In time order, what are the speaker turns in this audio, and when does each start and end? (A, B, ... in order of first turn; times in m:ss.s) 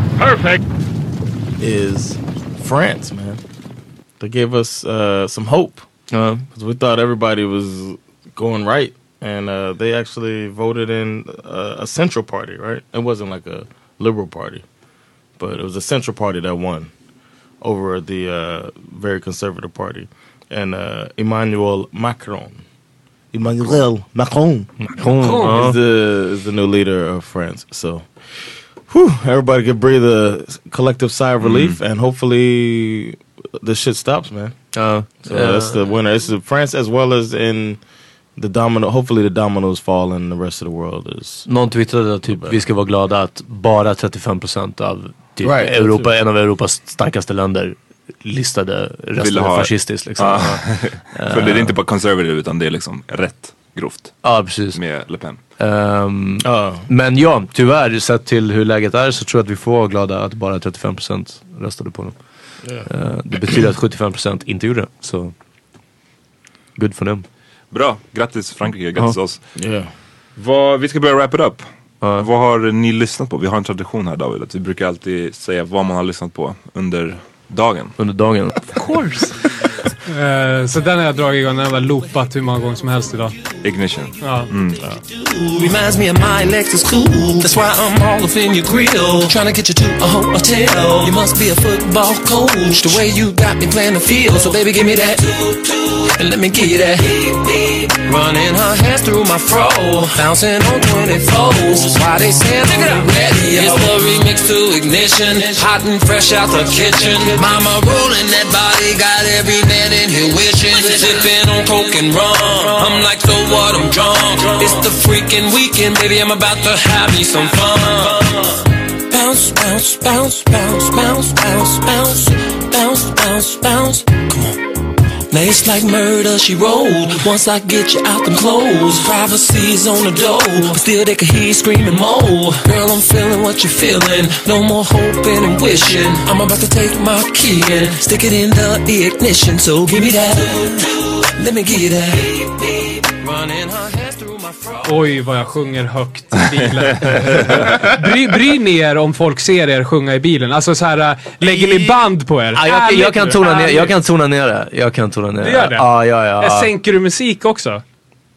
0:01.6-0:03.4 A
0:04.2-0:05.8 A
0:06.1-0:06.4 B
0:06.5-0:14.6 A
0:15.4-0:16.9 A
0:17.6-0:22.6 A
0:23.3-0:28.1 A
0:24.8-0:25.8 B
0:25.2-0:25.6 C
0:28.9-0:34.5 A
0:31.4-0:31.8 D
0:34.7-0:35.8 B
0:35.2-0:37.8 A
0:38.4-0:41.4 A
0:41.4-0:51.8 B
0:42.3-0:42.6 A
0:45.4-0:46.1 A
0:49.2-0:54.2 D
0:54.2-0:54.8 B
0:54.7-0:55.4 D
0:55.6-1:02.1 B
0:56.4-0:56.8 A
1:02.8-1:05.3 B
1:06.8-1:07.2 B
1:07.7-1:09.4 D
1:09.6-1:09.9 A
1:10.4-1:11.6 D
1:12.0-1:12.3 B
1:12.2-1:17.9 D
1:18.0-1:18.5 B
1:20.0-1:23.3 C
1:23.6-1:24.9 D
1:24.2-1:24.5 C
1:25.4-1:58.6 E
1:59.1-2:04.6 E
2:05.3-2:25.0 E
2:24.8-2:34.0 C
2:27.1-2:27.5 D
2:31.4-2:36.7 B
2:35.4-2:37.8 C